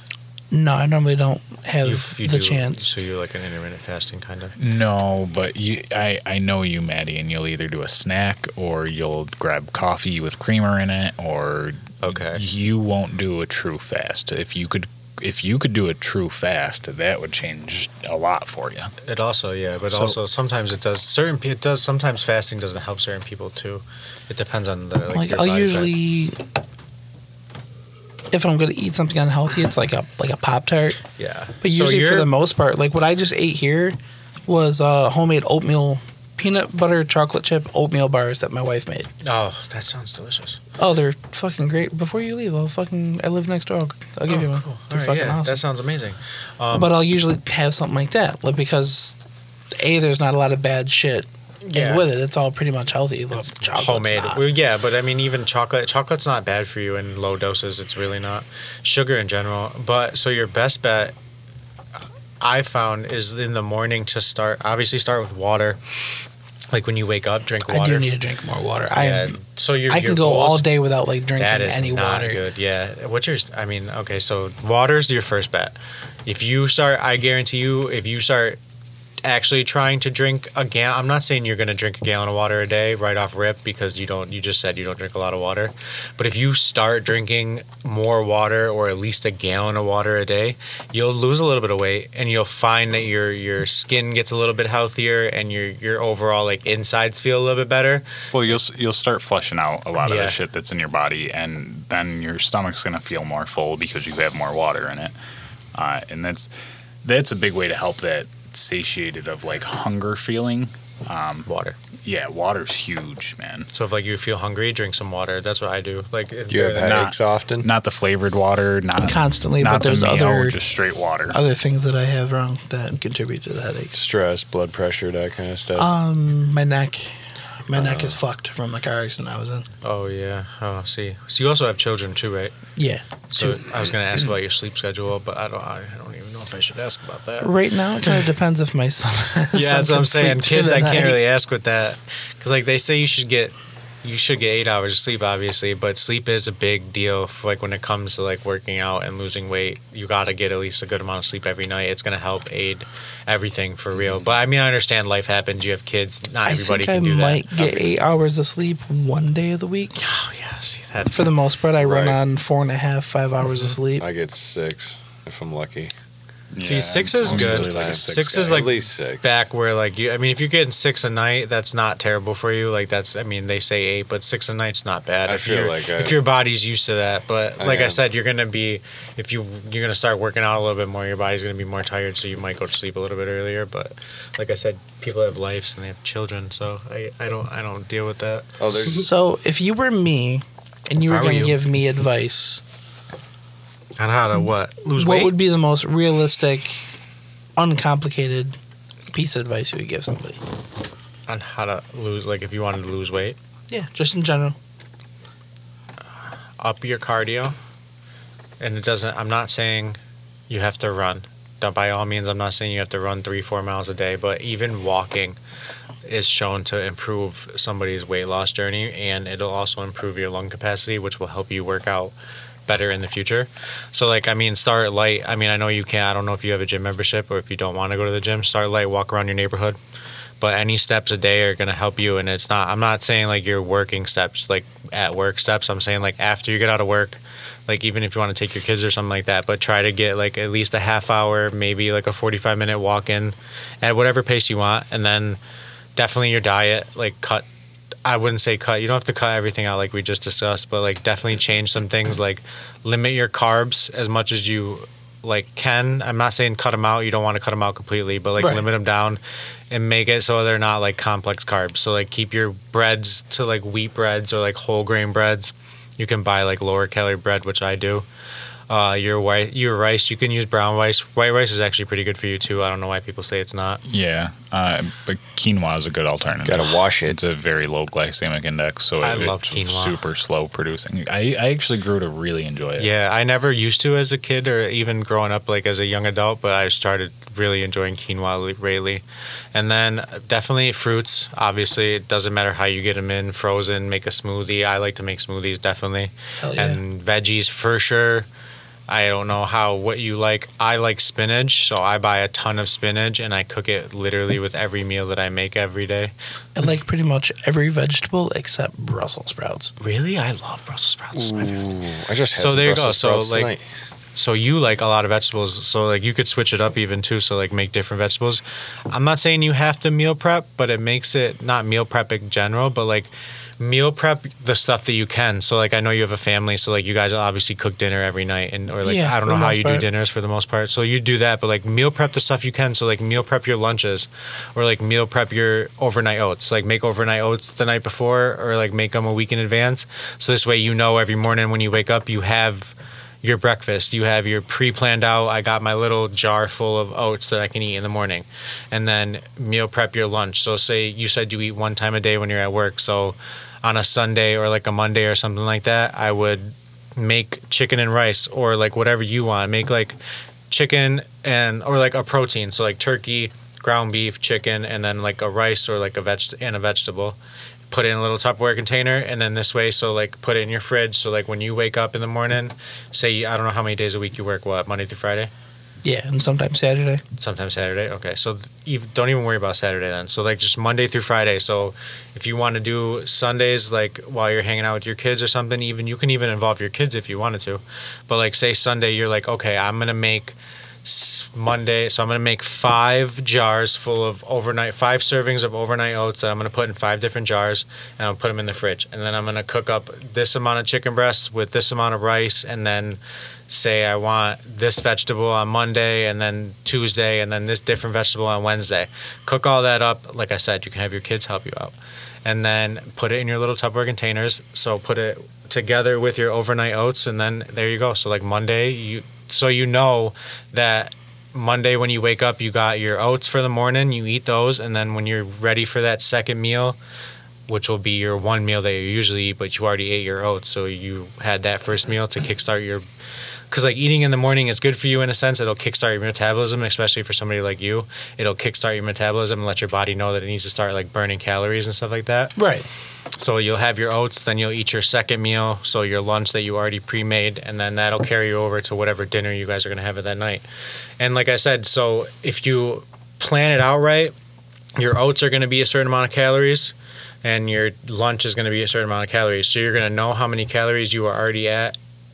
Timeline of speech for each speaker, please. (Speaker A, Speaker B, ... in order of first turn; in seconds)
Speaker A: 0.5-2.9, 25.1-26.4, 28.3-31.0, 31.6-39.1, 40.8-45.6, 46.7-49.2, 49.8-54.4, 67.7-69.4, 69.9-72.4, 119.1-120.6, 121.3-124.0, 125.8-127.1, 127.7-129.7, 132.8-133.6, 137.4-141.2, 156.4-160.0, 161.1-164.1, 188.8-192.6, 195.0-196.9, 197.6-198.6, 199.1-200.4, 203.7-204.6, 258.4-258.7, 296.4-296.8, 306.6-309.7, 328.8-329.9, 375.8-377.0, 442.4-442.7
Speaker B: 1.8-4.5, 12.0-12.4, 19.1-25.9, 31.2-32.3, 39.2-40.6, 44.3-46.9, 51.7-52.0, 53.4-61.1, 62.4-65.8, 66.7-68.1, 69.0-70.7, 71.4-78.6, 79.2-98.1, 100.0-100.4, 111.5-111.8, 113.7-117.0, 129.8-132.5, 133.3-137.5, 138.0-138.3, 139.5-157.9, 160.0-161.3, 166.6-188.8, 191.0-191.6, 194.0-195.3, 201.3-203.4, 206.6-207.6, 208.6-210.0, 210.5-215.4, 216.1-222.1, 222.7-229.8, 230.4-245.4, 246.0-247.5, 248.1-268.1, 268.7-273.8, 279.0-280.0, 282.8-298.3, 298.9-306.1, 309.8-311.6, 312.4-313.5, 314.1-360.0, 360.5-367.2, 367.7-375.3, 377.2-426.8, 427.5-432.9, 433.5-442.4, 443.1-450.4, 451.0-454.1, 454.8-461.8
Speaker C: 4.6-18.9, 19.9-20.2, 98.3-105.1, 105.8-106.5, 107.0-111.5, 112.0-113.7, 116.8-121.4, 166.5-168.7, 273.9-282.9
Speaker D: 116.5-117.7, 123.9-125.9, 127.7-128.2, 154.0-154.3, 161.8-162.2, 164.0-165.9, 167.2-169.5, 175.3-176.2, 177.6-178.0, 188.6-189.1, 276.4-277.2, 311.1-313.6